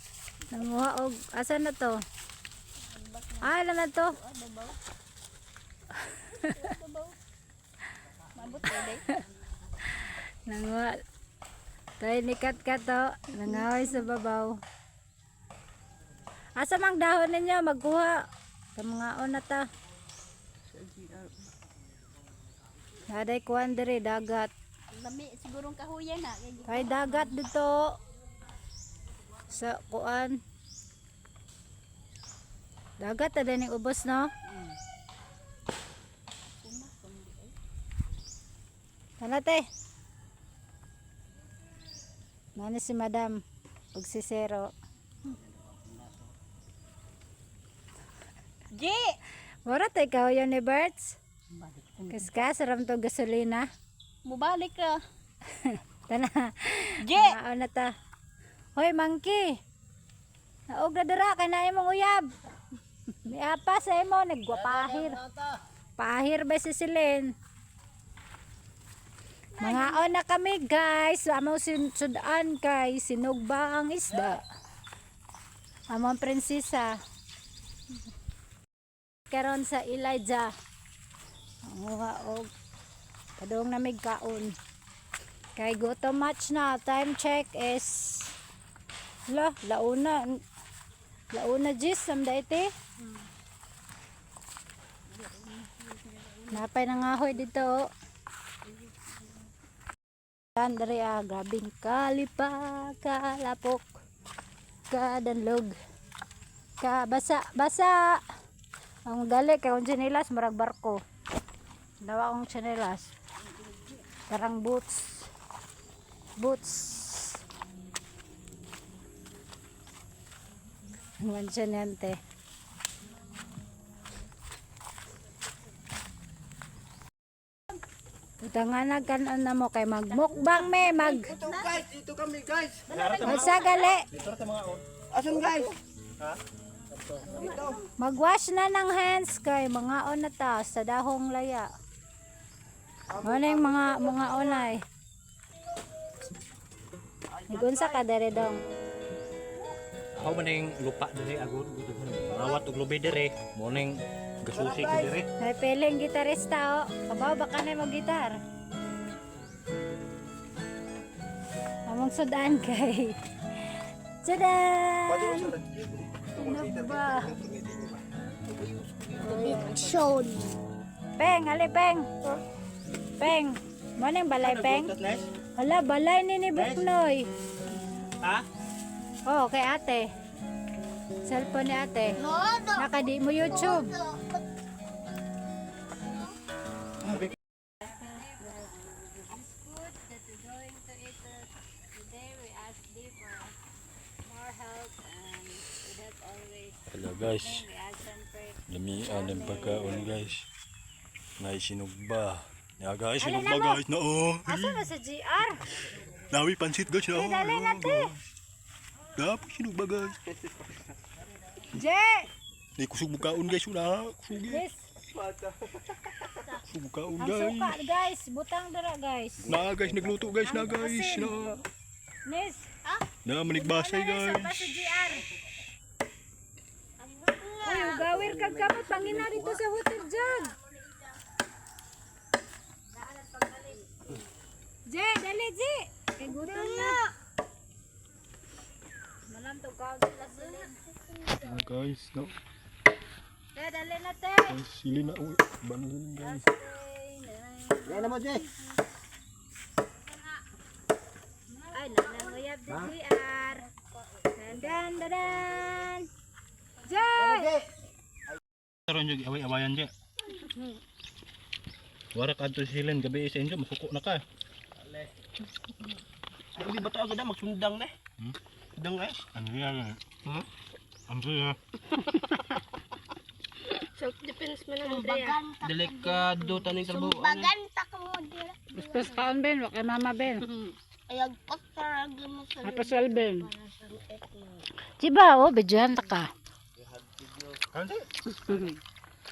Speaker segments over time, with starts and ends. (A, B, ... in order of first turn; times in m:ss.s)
0:00.5-0:02.0 A
0:02.9-0:04.8 B
0:03.4-0:04.2 A
0:06.0-0:06.4 A
0:06.3-0:07.2 B
0:08.4-0:09.1 B
0:10.0-0:10.9 A
0:12.0-0:14.6 A
0:13.4-0:14.0 B
0:16.6-0:18.2 A
0:18.8-0:19.6 A
0:20.7-0:21.3 B
0:23.1-0:24.5 A
0:25.0-0:27.4 B
0:26.7-0:27.9 A
0:29.5-0:30.4 A
0:33.0-0:34.3 A
0:34.5-0:34.8 B
0:36.6-0:37.5 B
0:39.2-0:39.6 A
0:42.6-0:43.4 A
0:43.9-0:44.7 A
0:48.7-0:49.2 B
0:49.6-0:51.2 A
0:51.6-0:52.4 B
0:52.1-0:53.6 A
0:54.2-0:55.0 B
0:55.5-0:57.9 A
0:56.8-0:57.4 B
0:58.8-0:59.5 A
1:00.7-1:02.2 A
1:03.2-1:05.2 A
1:06.0-1:07.3 A
1:09.6-1:10.0 B
1:09.6-1:14.4 A
1:15.9-1:17.0 A
1:19.3-1:20.5 A
1:21.7-1:22.5 A
1:23.4-1:24.6 A
1:25.6-1:28.4 A
1:29.3-1:30.4 A
1:31.3-1:32.7 A
1:35.1-1:36.7 B
1:36.5-1:37.8 A
1:38.7-1:39.1 B
1:40.5-1:43.9 A
1:44.9-1:45.8 A
1:46.8-1:48.2 A
1:49.0-1:51.0 A
1:52.0-1:53.1 A
1:53.6-1:54.0 B
1:54.3-1:55.3 A
1:56.4-1:57.4 A
2:01.2-2:02.2 A
2:08.4-2:11.3 A
2:10.1-2:11.8 B
2:11.2-2:16.4 C
2:12.9-2:14.0 B
2:12.9-2:13.3 D
2:13.2-2:14.0 A
2:17.1-2:17.8 C
2:17.3-2:17.8 B
2:18.0-2:21.7 A
2:23.1-2:24.7 C
2:23.2-2:24.8 A
2:27.4-2:28.0 C
2:27.5-2:28.6 A
2:30.2-2:35.2 D
2:32.3-2:32.7 C
2:34.5-2:35.2 C
2:35.4-2:38.3 A
2:41.9-2:43.2 A
2:44.2-2:45.6 A
2:45.0-2:48.0 C
2:46.4-2:47.3 A
2:48.9-2:50.4 B
2:49.2-2:49.8 C
2:51.2-2:52.1 A
2:53.2-2:54.9 A
2:54.4-2:55.3 C
2:55.6-2:57.3 A
2:56.5-2:56.8 C
2:59.2-3:00.1 A
3:01.2-3:02.2 A
3:02.2-3:03.0 B
3:02.7-3:03.9 A
3:03.5-3:04.4 B
3:07.8-3:13.5 A
3:14.2-3:20.1 A
3:16.9-3:17.6 E
3:18.7-3:20.4 E
3:21.4-3:24.9 E
3:23.2-3:23.8 A
3:24.4-3:25.7 A
3:26.3-3:28.2 E
3:27.1-3:28.1 A
3:29.2-3:30.2 E
3:31.7-3:32.3 A
3:32.8-3:34.6 E
3:34.4-3:34.8 A
3:35.1-3:36.3 C
3:36.6-3:37.8 E
3:37.2-3:39.6 A
3:39.4-3:41.6 E
3:40.4-3:41.6 A
3:42.2-3:42.7 A
3:43.2-3:44.7 E
3:43.5-3:45.2 A
3:47.0-3:48.2 B
3:47.6-3:50.5 A
3:50.1-3:51.1 B
3:53.0-3:53.8 A
3:54.9-3:57.0 A
3:56.2-3:57.1 B
3:59.3-4:00.8 A
4:01.4-4:02.4 E
4:03.5-4:04.6 A
4:04.5-4:06.5 E
4:06.2-4:08.4 A
4:11.6-4:13.7 A
4:14.3-4:16.1 A
4:16.8-4:17.6 A
4:18.9-4:19.9 D
4:22.1-4:24.2 D
4:26.5-4:27.9 C
4:28.8-4:29.2 C
4:29.4-4:30.0 E
4:31.1-4:31.5 D
4:33.8-4:39.2 B
4:34.8-4:37.5 C
4:38.7-4:40.4 A
4:40.4-4:44.6 B
4:42.6-4:43.5 A
4:45.0-4:46.3 A
4:47.6-4:48.0 C